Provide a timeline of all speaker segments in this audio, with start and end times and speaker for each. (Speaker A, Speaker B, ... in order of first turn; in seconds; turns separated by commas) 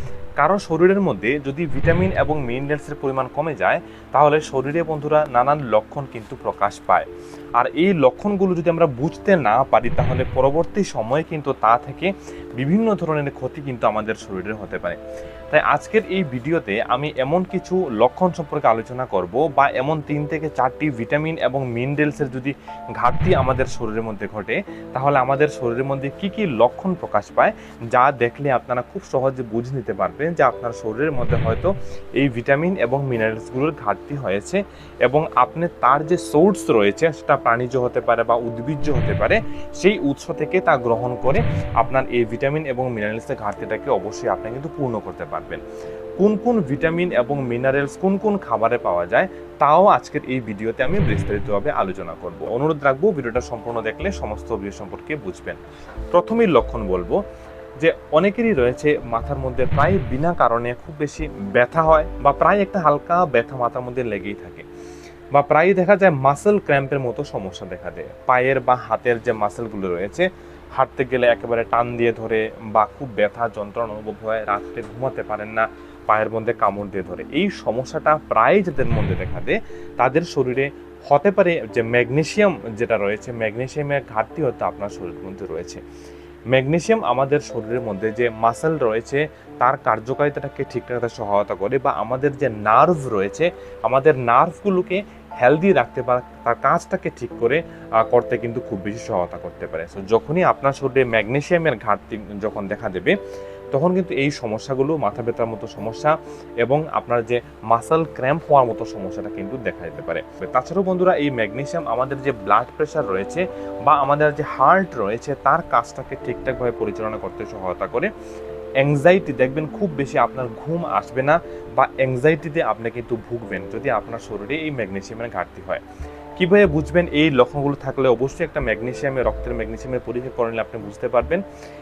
Speaker A: 0.4-15.0, Speaker A: 15.5-45.6, Speaker A: 46.2-55.6, Speaker A: 56.1-57.2, Speaker A: 57.8-64.7, Speaker A: 65.3-85.8, Speaker A: 86.5-103.1, Speaker A: 103.7-118.1, Speaker A: 118.8-125.8, Speaker A: 126.4-131.4